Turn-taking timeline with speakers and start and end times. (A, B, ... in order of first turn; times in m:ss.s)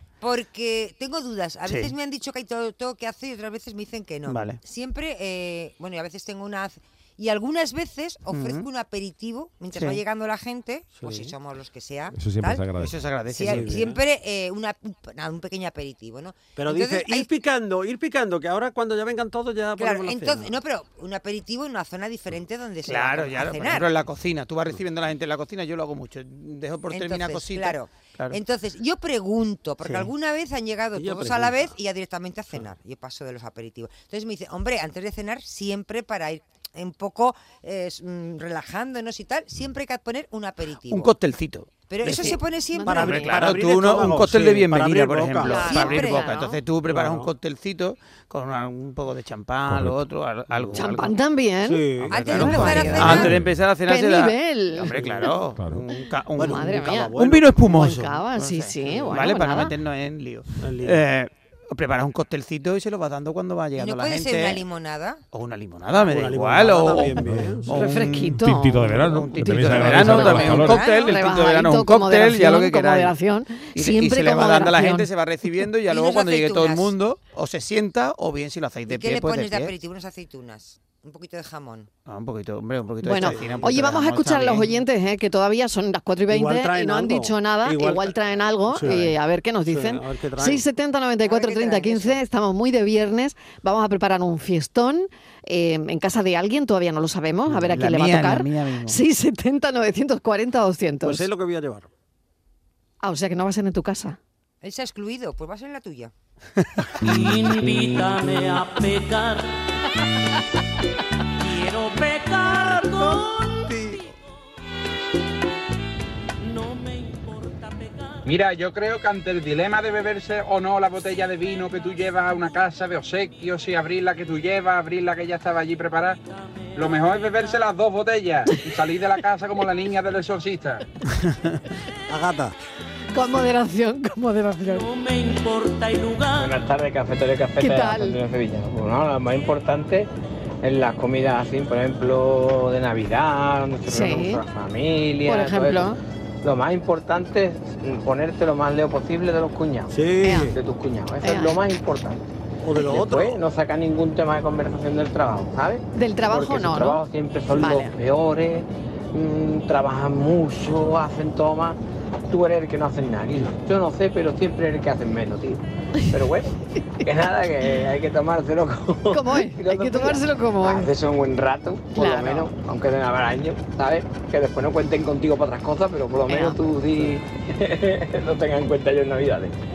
0:00.2-0:12.7 A
0:01.7-0:01.9 B
0:04.3-0:04.6 B
0:08.3-0:08.7 B
0:11.0-0:11.3 C
0:12.2-0:13.0 D
0:12.8-0:13.8 B
0:13.3-0:17.3 A
0:13.4-0:14.0 C
0:16.6-0:20.6 C
0:19.8-0:23.9 A
0:22.9-0:28.4 B
0:26.9-0:41.1 A
0:31.0-0:31.7 C
0:40.9-0:42.4 B
0:41.9-0:43.2 A
0:42.8-0:43.5 E
0:42.9-0:45.8 C
0:43.0-0:51.2 B
0:45.4-0:46.6 A
0:45.5-0:46.5 E
0:46.9-0:47.3 C
0:49.7-0:50.0 D
0:50.7-0:51.8 E
0:51.6-0:53.3 C
0:52.1-1:04.6 B
0:52.1-0:53.4 A
0:52.6-0:53.6 D
0:53.9-0:55.3 E
0:54.9-0:55.2 C
0:56.4-0:57.9 C
0:56.4-0:59.7 E
1:00.6-1:01.0 C
1:03.8-1:05.2 A
1:05.3-1:13.2 B
1:06.0-1:08.1 C
1:07.2-1:07.7 D
1:07.8-1:15.1 E
1:08.3-1:10.8 D
1:10.0-1:11.1 A
1:13.7-1:19.7 B
1:15.9-1:16.9 A
1:18.9-1:21.9 A
1:22.1-1:24.8 B
1:23.0-1:41.2 E
1:23.2-1:23.7 C
1:26.3-1:29.2 C
1:29.7-1:30.6 C
1:31.2-1:32.2 A
1:37.7-1:39.0 B
1:41.0-1:41.9 C
1:43.0-1:44.2 E
1:44.6-1:46.1 A
1:47.1-1:47.8 F
1:47.8-1:49.3 G
1:52.0-1:52.2 G
1:52.5-1:54.1 C
1:58.2-2:06.2 F
2:06.8-2:10.8 F
2:11.1-2:11.6 B
2:12.1-2:12.6 C
2:13.1-2:14.9 E
2:15.1-2:16.2 G
2:16.4-2:20.1 H
2:17.6-2:18.2 E
2:20.6-2:29.9 H
2:23.9-2:24.4 E
2:25.2-2:26.0 E
2:29.9-2:30.6 C
2:30.2-2:30.5 E
2:30.5-2:32.2 H
2:31.2-2:31.6 E
2:32.6-2:33.4 C
2:32.8-2:59.5 H
2:35.9-2:37.9 E
2:49.1-2:50.9 E
2:52.0-2:52.5 E
2:56.3-2:56.6 E